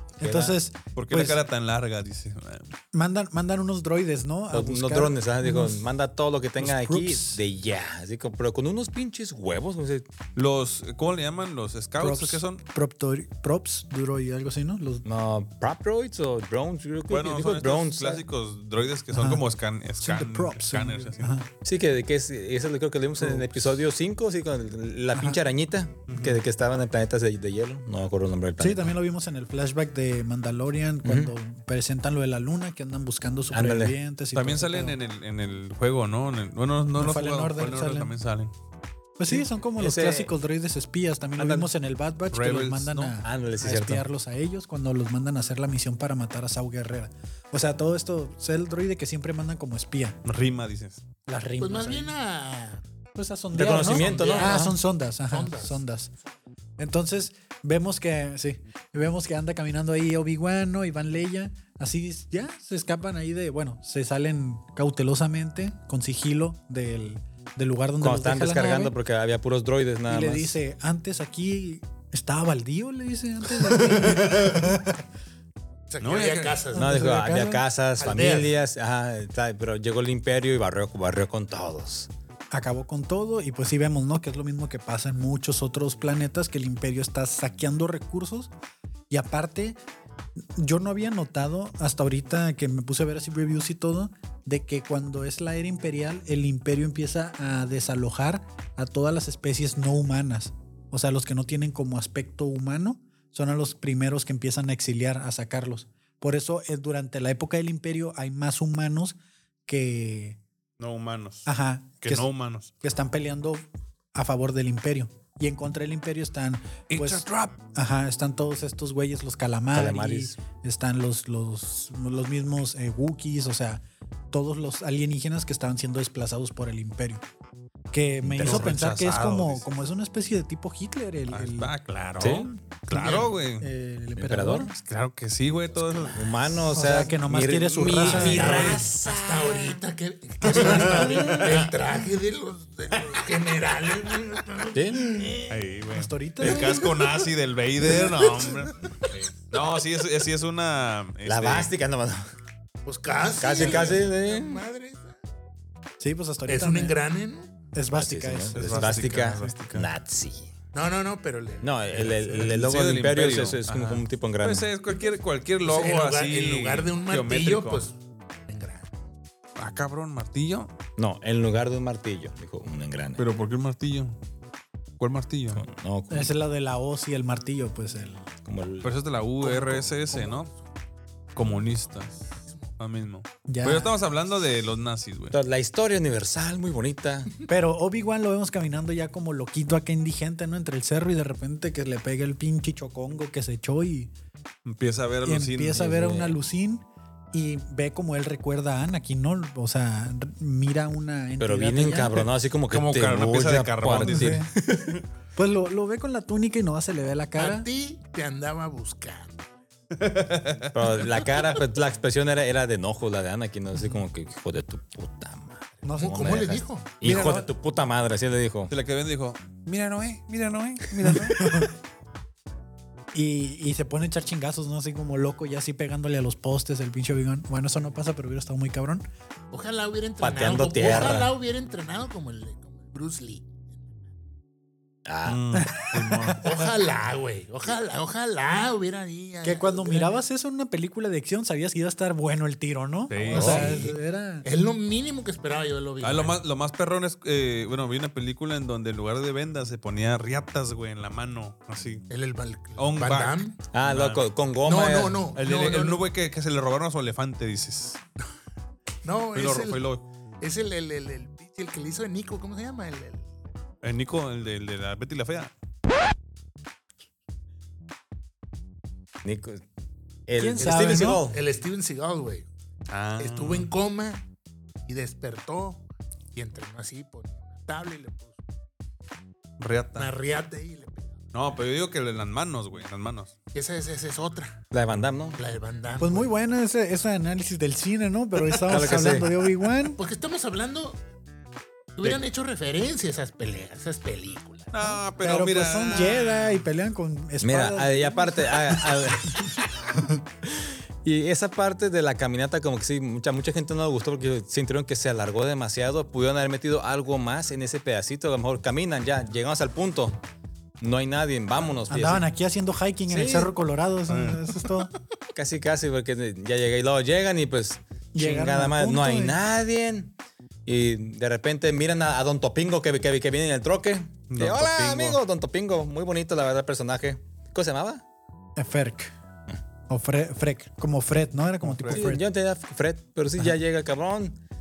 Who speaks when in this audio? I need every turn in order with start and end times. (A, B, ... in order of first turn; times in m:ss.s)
0:00.2-0:00.6 A
0:00.2-0:01.4 B
0:00.9-0:02.7 C
0:02.9-0:05.9 B
0:04.5-0:10.1 A
0:06.6-0:07.4 B
0:10.3-0:12.6 C
0:12.0-0:15.0 B
0:15.0-0:18.2 A
0:17.1-0:21.4 C
0:19.1-0:19.4 B
0:20.0-0:21.5 B
0:21.6-0:28.9 A
0:25.1-0:25.4 B
0:26.1-0:26.4 C
0:28.6-0:35.0 B
0:31.0-0:31.3 A
0:33.5-0:34.0 A
0:34.3-0:38.5 C
0:37.0-0:38.1 B
0:39.2-0:50.2 B
0:39.3-0:40.3 A
0:41.4-0:41.6 A
0:42.3-0:43.2 C
0:43.2-0:44.0 A
0:50.2-0:51.0 C
0:51.2-0:52.1 B
0:51.6-0:52.8 D
0:53.1-0:56.1 B
0:53.5-0:54.8 A
0:53.6-0:54.7 D
0:55.3-0:55.8 D
0:56.8-1:08.9 B
1:08.0-1:10.6 A
1:10.1-1:15.0 B
1:15.9-1:17.0 D
1:16.0-1:16.6 C
1:16.7-1:17.6 B
1:16.7-1:22.1 A
1:18.0-1:18.5 D
1:22.5-1:28.5 B
1:29.1-1:29.8 B
1:30.6-1:50.4 B
1:50.8-1:51.5 C
1:51.4-1:52.3 B
1:52.0-1:52.7 C
1:52.8-2:07.2 B
1:56.9-1:57.6 C
1:59.7-2:00.4 A
2:07.9-2:11.7 B
2:08.2-2:08.7 A
2:08.4-2:09.6 C
2:11.3-2:13.7 C
2:12.2-2:12.5 A
2:12.9-2:13.3 D
2:13.6-2:14.7 B
2:14.2-2:14.7 A
2:14.8-2:16.6 C
2:16.0-2:19.8 A
2:16.7-2:18.7 B
2:17.8-2:18.9 C
2:18.0-2:25.4 D
2:20.5-2:21.6 C
2:20.7-2:21.5 A
2:24.7-2:25.4 A
2:25.5-2:28.8 C
2:25.9-2:26.8 B
2:26.4-2:26.8 A
2:26.8-2:27.0 D
2:27.9-2:28.7 D
2:29.5-2:31.7 C
2:31.2-2:32.2 A
2:32.8-2:35.2 D
2:33.4-2:34.6 A
2:33.6-2:33.9 C
2:36.0-2:37.0 B
2:36.5-2:37.5 D
2:37.7-2:39.6 B
2:37.9-2:40.5 A
2:38.5-2:39.9 C
2:40.7-2:42.2 D
2:41.6-2:44.6 A
2:42.2-2:47.8 C
2:45.6-2:48.9 D
2:49.6-2:50.7 C
2:51.0-2:53.2 A
2:53.2-2:54.2 C
2:55.0-2:55.6 C
2:55.5-2:56.3 A
2:56.1-2:58.3 B
2:58.4-2:58.9 A
2:58.8-3:00.5 C
2:59.4-3:00.6 D
3:01.3-3:02.2 C
3:02.3-3:02.7 D
3:02.8-3:05.3 C
3:03.5-3:03.9 B
3:05.3-3:07.3 A
3:07.5-3:14.1 B
3:14.6-3:16.4 C
3:15.2-3:22.3 B
3:21.4-3:25.0 A
3:22.7-3:24.4 C
3:24.0-3:24.5 B
3:25.3-3:27.7 B
3:27.4-3:29.4 D
3:30.0-3:30.8 C
3:30.7-3:38.7 A
3:35.8-3:36.4 B
3:35.9-3:36.9 D
3:37.0-3:37.4 C
3:38.7-3:41.5 C
3:41.2-3:41.7 B
3:43.1-3:49.1 B
3:49.5-3:54.0 D
3:50.2-3:51.3 A
3:55.0-3:55.6 A
3:55.2-3:56.4 C
3:55.5-3:56.6 B
3:56.3-4:00.2 D
3:59.4-4:04.4 B
4:03.1-4:03.8 C
4:03.2-4:06.4 D
4:06.0-4:12.0 C
4:12.1-4:13.6 D
4:12.8-4:14.2 C
4:13.7-4:15.2 A
4:14.6-4:16.0 D
4:15.3-4:18.0 C
4:19.0-4:19.8 D
4:19.3-4:20.0 C
4:20.4-4:23.3 D
4:23.8-4:25.5 C
4:29.2-4:29.6 A
4:30.3-4:31.4 A
4:30.4-4:31.2 B
4:30.6-4:32.5 D
4:32.9-4:33.7 C
4:33.2-4:34.2 D
4:34.8-4:38.4 D
4:39.6-4:40.1 C
4:39.9-4:41.2 D
4:41.3-4:43.3 C
4:43.5-4:44.6 D
4:44.7-4:45.4 A
4:45.4-4:46.3 D
4:46.0-4:50.0 B
4:48.6-4:49.3 A
4:50.0-4:51.0 D
4:52.0-4:55.0 D
4:54.7-4:56.6 C
4:55.2-5:00.2 B
4:57.4-4:59.5 A
5:01.0-5:10.2 A
5:10.8-5:12.2 A
5:11.9-5:14.9 B
5:13.1-5:13.5 A
5:14.1-5:14.4 C
5:15.3-5:20.1 A
5:18.1-5:19.4 B
5:20.6-5:28.0 A
5:24.3-5:25.2 C
5:28.6-5:29.1 B
5:29.9-5:32.2 B
5:31.6-5:32.0 C
5:31.9-5:34.4 A